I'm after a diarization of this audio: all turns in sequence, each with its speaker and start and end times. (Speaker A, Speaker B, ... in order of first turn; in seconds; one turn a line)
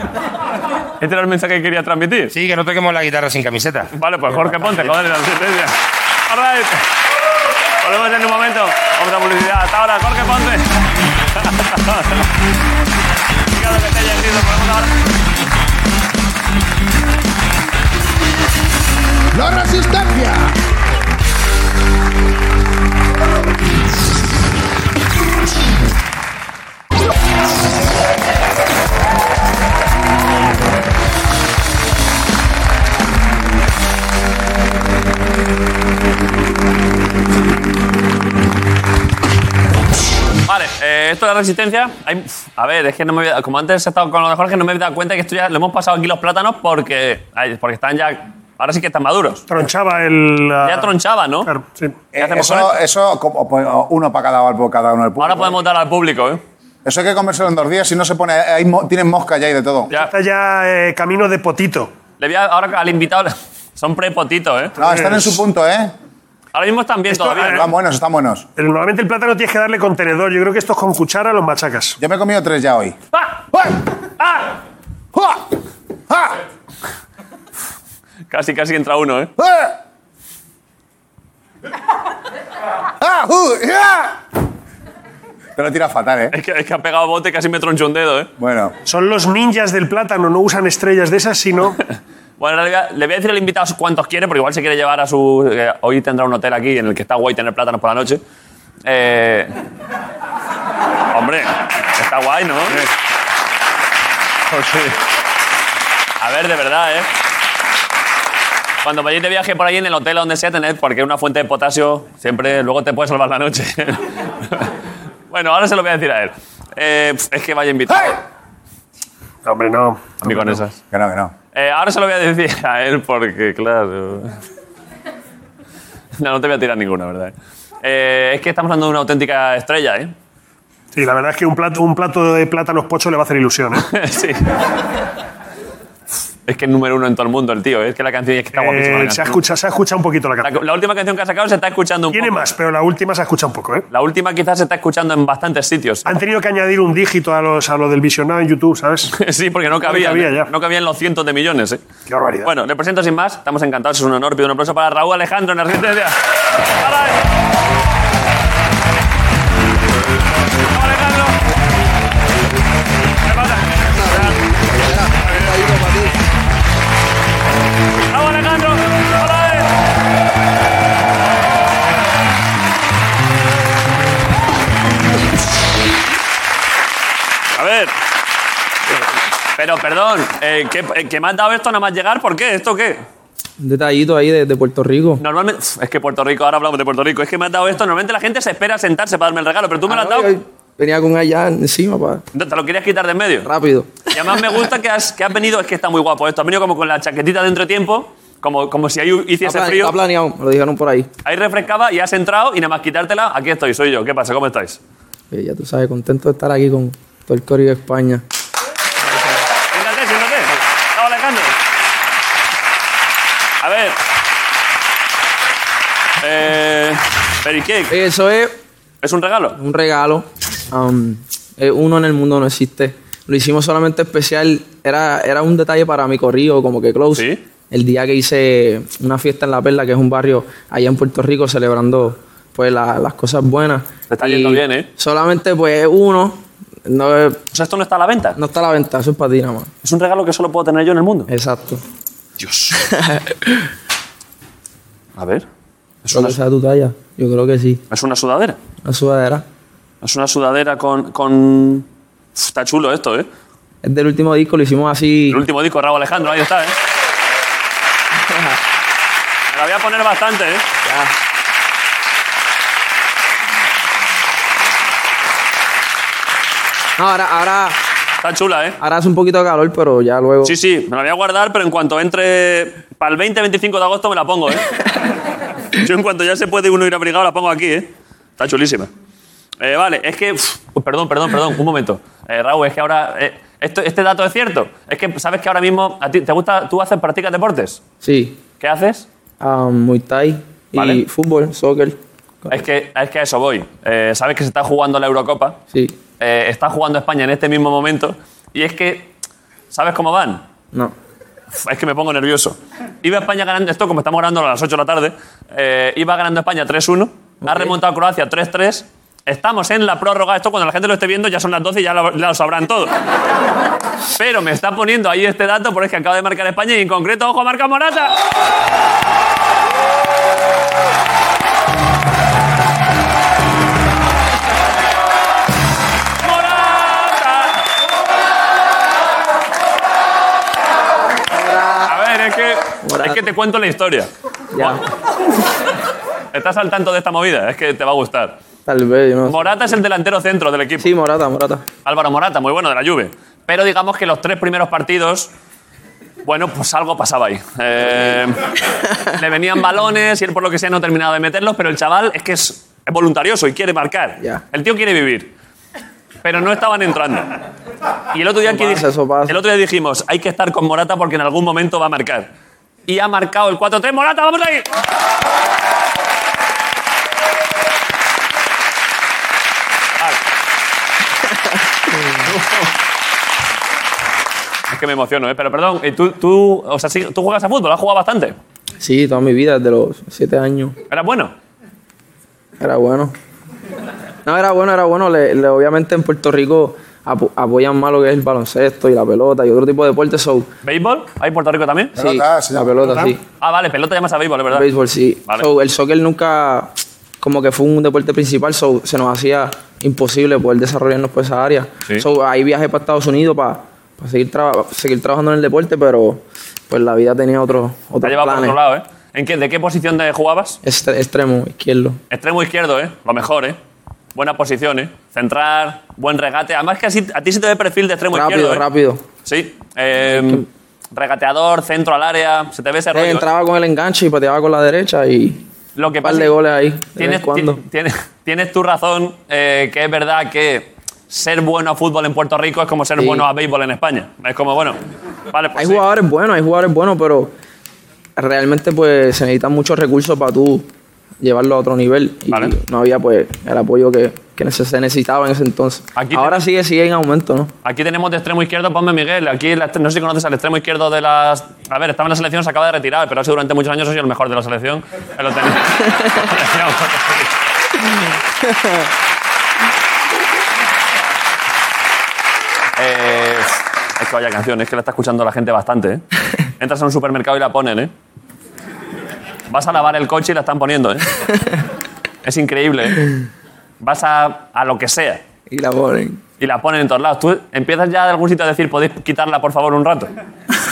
Speaker A: 1.0-2.3
Speaker B: 2.3-4.9
Speaker A: 3.9-5.8
Speaker A: 6.3-6.8
Speaker A: 7.8-10.7
Speaker A: 11.3-12.2
Speaker A: 13.5-14.9
Speaker C: 19.3-20.5
Speaker A: 40.5-49.5
Speaker D: 49.5-50.9
Speaker A: 50.6-51.5
Speaker D: 51.5-52.0
Speaker C: 52.1-55.6
Speaker A: 52.2-52.8
Speaker A: 55.2-56.4
Speaker C: 56.9-59.9
Speaker D: 59.9-61.9
Speaker A: 62.2-64.8
Speaker D: 64.8-65.4
Speaker C: 64.8-65.9
Speaker A: 66.5-67.7
Speaker D: 67.2-67.7
Speaker C: 67.4-68.5
Speaker D: 68.6-72.0
Speaker C: 72.0-73.0
Speaker C: 75.2-75.4
Speaker A: 78.3-79.3
Speaker C: 79.4-79.7
Speaker C: 83.0-84.2
Speaker C: 85.6-86.3
Speaker A: 86.3-88.3
Speaker C: 88.4-88.7
Speaker D: 88.9-91.8
Speaker A: 92.4-98.2
Speaker A: 98.8-99.5
Speaker A: 101.1-102.9
Speaker A: 104.5-105.0
Speaker A: 106.2-107.1
Speaker A: 108.8-114.7
Speaker A: 115.3-118.2
Speaker D: 119.5-120.6
Speaker A: 120.2-120.8
Speaker C: 120.9-121.3
Speaker A: 121.5-124.4
Speaker A: 126.2-130.1
Speaker D: 130.9-133.9
Speaker A: 133.8-134.4
Speaker A: 136.5-139.4
Speaker D: 138.5-140.5
Speaker A: 140.4-142.4
Speaker D: 142.1-143.9
Speaker A: 143.9-146.1
Speaker D: 146.1-149.1
Speaker A: 149.1-151.8
Speaker D: 149.8-150.5
Speaker D: 152.1-152.5
Speaker A: 152.4-156.2
Speaker A: 156.7-157.2
Speaker A: 160.7-161.4
Speaker A: 163.2-164.4
Speaker E: 164.7-166.1
Speaker A: 165.2-165.7
Speaker A: 168.1-169.7
Speaker A: 177.6-177.9
Speaker A: 179.6-183.0
Speaker E: 183.6-185.2
Speaker A: 185.2-190.3
Speaker E: 189.9-192.2
Speaker A: 192.3-193.5
Speaker E: 193.4-194.1
Speaker A: 194.1-199.9
Speaker E: 199.4-201.1
Speaker A: 201.2-204.8
Speaker E: 205.3-208.2
Speaker E: 209.1-209.4
Speaker A: 209.7-211.6
Speaker A: 213.6-214.0
Speaker A: 216.2-217.9
Speaker E: 217.9-218.6
Speaker A: 219.0-219.6
Speaker E: 219.6-237.4
Speaker A: 227.1-227.4
Speaker A: 234.1-234.9
Speaker A: 237.5-238.4
Speaker E: 238.4-239.7
Speaker A: 239.8-241.3
Speaker E: 241.3-241.8
Speaker A: 242.4-242.8
Speaker E: 242.8-243.7
Speaker A: 245.2-245.5
Speaker A: 246.1-246.4
Speaker E: 246.1-247.8
Speaker A: 247.9-248.6
Speaker E: 248.8-249.4
Speaker A: 250.0-253.3
Speaker E: 253.8-255.4
Speaker A: 255.3-256.8
Speaker E: 258.2-258.6
Speaker A: 259.5-260.7
Speaker E: 260.9-261.1
Speaker E: 267.0-267.8
Speaker A: 268.2-268.8
Speaker E: 268.8-270.6
Speaker A: 270.4-274.7
Speaker A: 275.8-278.9
Speaker A: 279.6-287.8
Speaker E: 288.0-288.4
Speaker A: 288.6-289.1
Speaker E: 289.4-292.6
Speaker A: 290.8-291.0
Speaker A: 292.5-295.6
Speaker E: 295.7-296.0
Speaker A: 296.2-299.1
Speaker A: 299.7-300.4
Speaker A: 301.6-312.9
Speaker E: 307.4-307.7
Speaker A: 314.2-318.1
Speaker A: 326.2-327.6
Speaker E: 331.3-331.9
Speaker A: 331.9-334.8
Speaker E: 332.8-333.2
Speaker E: 334.5-334.8
Speaker A: 336.3-338.4
Speaker E: 338.7-339.7
Speaker A: 339.3-340.9
Speaker E: 340.8-341.6
Speaker A: 341.9-345.3
Speaker A: 346.2-348.5
Speaker A: 349.1-355.3
Speaker A: 356.2-357.4
Speaker A: 358.1-362.3
Speaker E: 358.4-359.4
Speaker A: 362.9-364.7
Speaker E: 371.9-372.2
Speaker A: 372.2-372.7
Speaker A: 374.7-378.4
Speaker E: 378.8-380.8
Speaker A: 380.9-381.3
Speaker E: 382.6-383.1
Speaker E: 384.2-390.5
Speaker A: 390.6-392.0
Speaker C: 392.0-392.8
Speaker E: 392.0-393.2
Speaker D: 392.8-393.1
Speaker A: 393.4-394.7
Speaker E: 394.5-408.6
Speaker A: 408.0-410.6
Speaker E: 410.6-412.0
Speaker A: 412.1-413.6
Speaker A: 414.1-418.6
Speaker E: 418.1-419.0
Speaker A: 419.2-423.3
Speaker E: 420.1-420.4
Speaker E: 422.9-425.4
Speaker A: 425.8-426.4
Speaker E: 426.0-427.6
Speaker A: 427.0-434.8
Speaker E: 433.0-433.3
Speaker A: 435.3-435.8
Speaker E: 435.6-437.3
Speaker E: 438.2-440.7
Speaker E: 441.2-447.5
Speaker A: 442.3-442.6
Speaker A: 445.9-446.4
Speaker A: 447.6-457.3
Speaker A: 462.8-466.0
Speaker A: 466.6-467.9
Speaker A: 469.5-471.1
Speaker A: 472.2-473.1
Speaker A: 473.8-475.2
Speaker E: 475.5-476.2
Speaker A: 476.4-480.1